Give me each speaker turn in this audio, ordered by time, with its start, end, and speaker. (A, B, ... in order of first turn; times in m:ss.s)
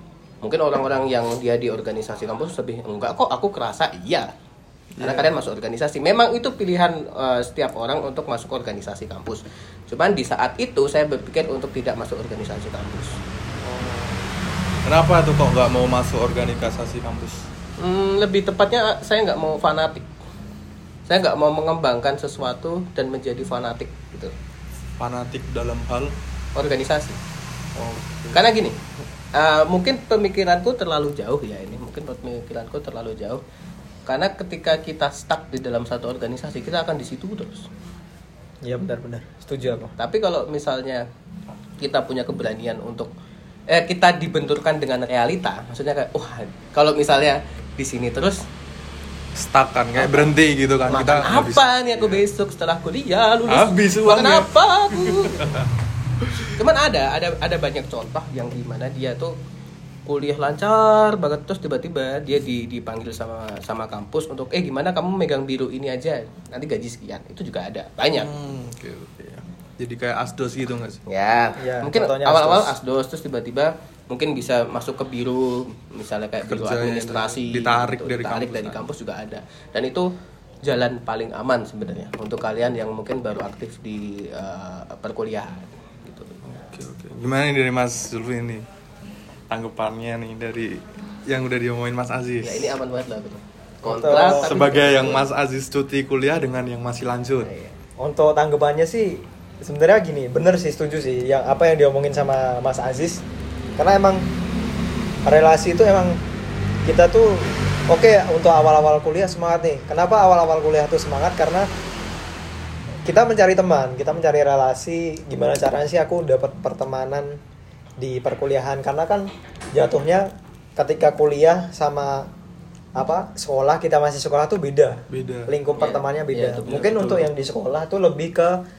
0:00.4-0:04.3 A
0:05.0-0:05.4 B
0:05.0-0:13.2 A
0:13.6-0:14.2 B
0:14.8-0:17.5 B
0:17.8-0:20.1 A
0:21.1-0:24.3 A
0:25.0-0:26.1 B
0:26.6-0:27.2 A
0:27.8-0:28.4 B
0:28.3-0:28.8 A
0:29.3-0:33.4 A
0:34.1-0:37.7 A
0:38.6-0:39.9 C
0:40.0-0:41.0 A
0:41.8-0:43.1 A
0:43.7-0:48.4 A
0:49.4-0:52.2 B
0:49.9-0:50.3 A
0:50.9-0:55.6 A
0:53.5-0:55.7 B
0:56.3-0:56.5 B
0:56.5-0:59.4 A
1:00.0-1:08.3 A
1:08.1-1:11.0 B
1:11.1-1:20.1 A
1:11.6-1:12.8 C
1:16.5-1:18.8 B
1:20.6-1:26.4 A
1:26.4-1:28.6 B
1:29.5-1:32.8 B
1:32.4-1:35.3 A
1:33.8-1:34.6 C
1:34.0-1:37.5 B
1:37.4-1:37.7 A
1:38.0-1:43.2 C
1:43.8-1:44.2 C
1:45.2-1:46.2 C
1:46.8-1:51.7 C
1:53.0-1:57.4 C
1:58.0-2:02.3 C
2:03.0-2:08.6 C
2:05.1-2:05.5 B
2:05.7-2:07.3 A